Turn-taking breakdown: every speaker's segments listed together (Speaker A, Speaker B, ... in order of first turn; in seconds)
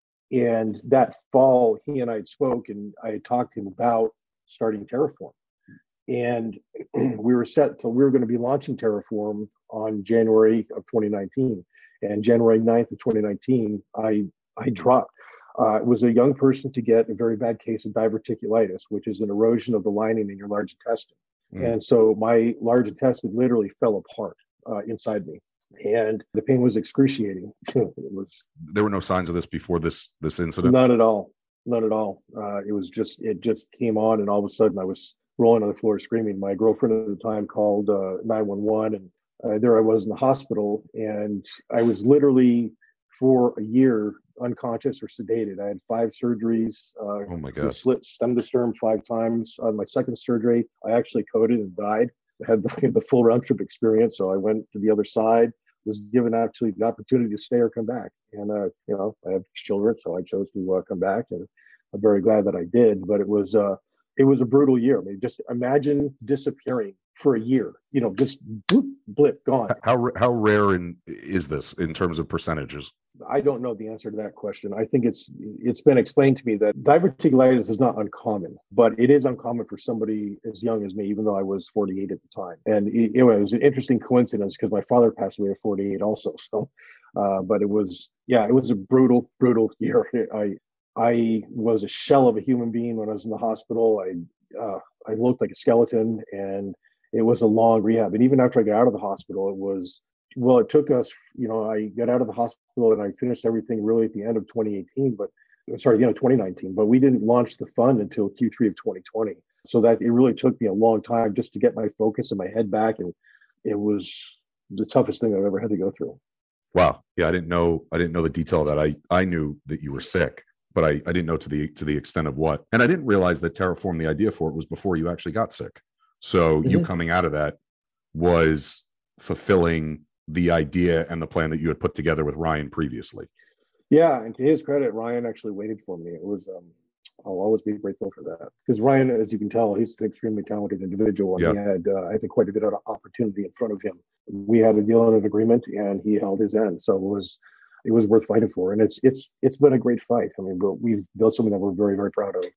Speaker A: 0.3-5.3, 6.1-28.4, 30.6-69.8, 73.2-116.2, 133.9-136.7, 137.2-152.5
Speaker B: 28.7-30.8, 47.3-47.8, 69.7-72.9, 116.7-127.6, 128.1-133.3